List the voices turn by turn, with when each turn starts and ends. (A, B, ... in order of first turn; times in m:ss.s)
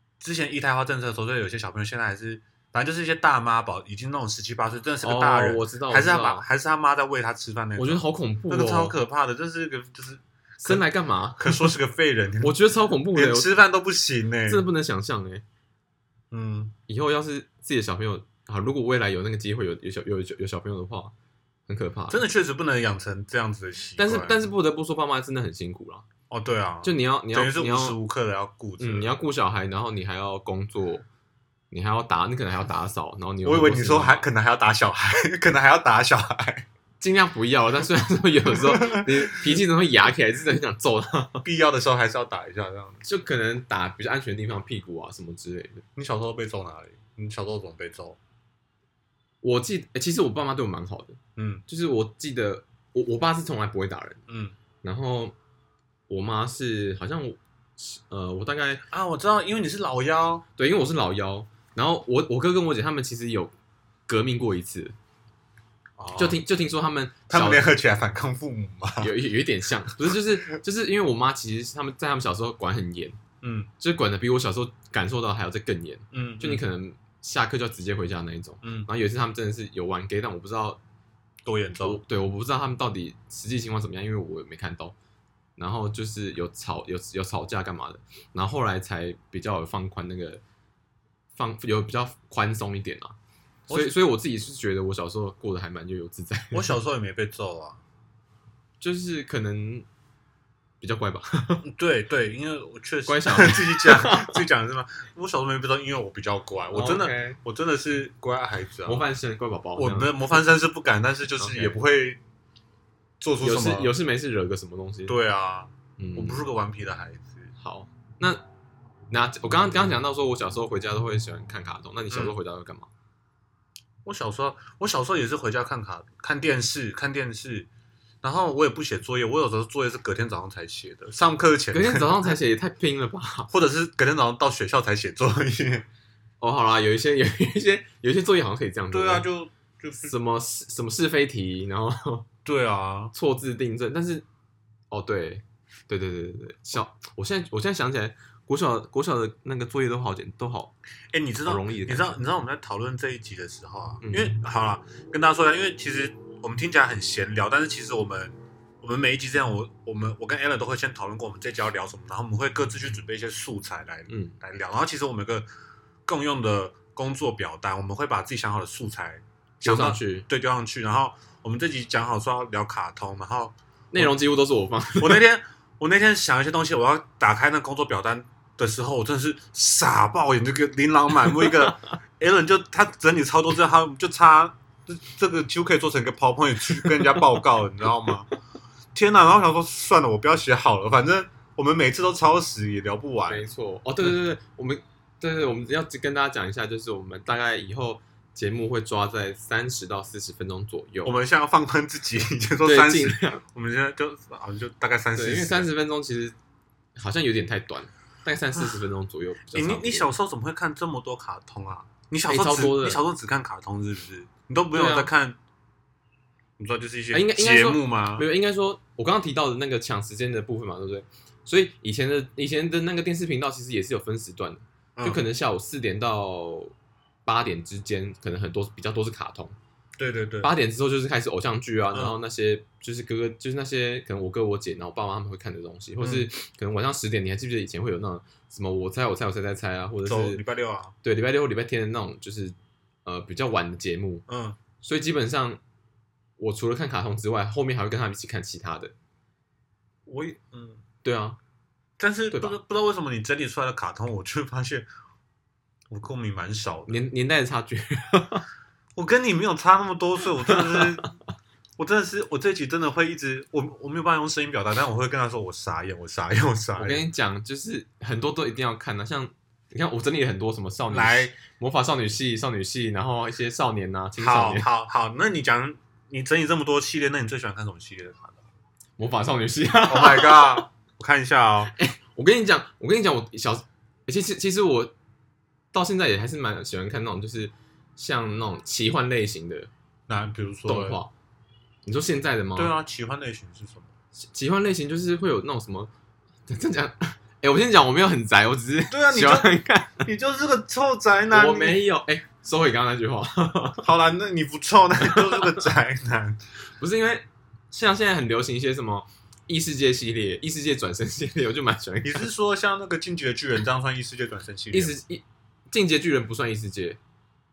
0:00.2-0:10.8 A
0:05.0-0:06.4 B
0:07.8-0:09.0 B
0:10.6-0:11.7 B
0:11.4-0:12.6 A
0:12.4-0:13.5 B
0:13.1-0:14.6 A
0:14.4-0:15.4 B
0:16.3-0:16.7 A
0:16.9-0:21.1 B
0:21.7-0:22.2 B
0:22.1-0:24.4 A
0:24.0-0:26.0 B
0:26.3-0:29.1 A
0:26.8-0:28.0 B
0:28.8-0:31.0 B
0:31.7-0:34.3 B
0:33.4-0:36.6 A
0:37.0-0:41.4 B
0:38.4-0:39.5 A
0:41.4-0:43.0 A
0:43.0-0:45.8 B
0:46.0-0:48.2 A
0:49.4-0:54.2 B
0:51.4-0:51.6 A
0:54.3-0:54.6 A
0:54.8-0:55.3 B
0:56.1-0:58.8 B
0:58.9-1:00.4 A
1:00.6-1:03.5 B
1:04.1-1:04.9 B
1:06.0-1:06.4 A
1:06.2-1:07.7 B
1:07.3-1:09.1 A
1:09.0-1:13.2 B
1:13.4-1:13.7 A
1:13.8-1:20.8 B
1:16.1-1:16.6 A
1:18.6-1:18.9 A
1:21.4-1:22.0 A
1:21.8-1:24.9 B
1:25.6-1:30.4 B
1:31.3-1:33.2 B
1:33.7-1:36.8 B
1:33.7-1:33.9 A
1:36.5-1:37.8 A
1:38.8-1:39.9 B
1:40.8-1:41.7 B
1:41.6-1:49.0 A
1:43.1-1:44.4 B
1:46.7-1:47.4 B
1:48.8-1:50.4 B
1:49.8-1:52.2 A
1:51.4-1:51.7 B
1:53.2-1:53.9 A
1:53.4-1:55.2 B
1:55.1-1:57.5 A
1:56.0-1:56.4 B
1:57.6-1:58.4 B
1:59.1-2:02.9 B
2:04.0-2:07.7 A
2:08.2-2:12.4 A
2:11.7-2:13.5 B
2:13.5-2:15.9 A
2:16.4-2:19.2 B
2:18.9-2:20.1 A
2:20.0-2:22.3 B
2:22.4-2:23.1 A
2:23.1-2:24.2 B
2:24.9-2:30.7 B
2:31.1-2:45.4 A
2:31.4-2:32.2 B
2:34.0-2:34.3 B
2:44.1-2:44.3 B
2:46.0-2:54.2 A
2:49.6-2:50.3 B
2:53.9-2:55.2 B
2:55.0-3:08.3 A
3:08.9-3:13.5 A
3:13.3-3:21.2 B
3:21.0-3:25.7 A
3:22.6-3:23.4 B
3:25.2-3:26.4 B
3:27.0-3:30.1 B
3:29.5-3:35.4 A
3:32.3-3:33.0 B
3:34.7-3:35.1 B
3:36.6-3:38.2 A
3:37.1-3:46.7 B
3:47.2-3:49.5 B
3:50.0-3:50.5 A
3:50.4-4:00.4 B
3:56.0-3:56.3 A
4:00.0-4:00.9 A
4:01.0-4:04.2 B
4:04.3-4:04.6 A
4:04.8-4:05.6 B
4:06.4-4:08.9 B
4:10.0-4:10.8 A
4:11.0-4:11.4 B
4:12.0-4:14.9 A
4:12.3-4:12.6 B
4:15.9-4:17.0 A
4:16.9-4:18.4 B
4:19.0-4:21.1 A
4:20.5-4:20.9 B
4:21.8-4:27.0 A
4:26.8-4:34.7 B
4:30.9-4:31.3 A
4:34.2-4:38.4 A
4:39.0-4:40.6 B
4:39.9-4:41.7 A
4:41.7-4:44.9 B
4:45.7-4:49.7 B
4:50.1-4:51.0 A
4:50.6-4:51.1 B
4:51.8-4:52.7 B
4:52.6-4:53.9 A
4:54.2-4:55.9 B
4:56.5-5:00.0 B
4:58.9-5:01.8 A
5:01.3-5:03.9 B
5:03.8-5:06.4 A
5:05.0-5:05.6 B
5:06.8-5:12.3 B
5:12.0-5:14.9 A
5:14.7-5:17.0 B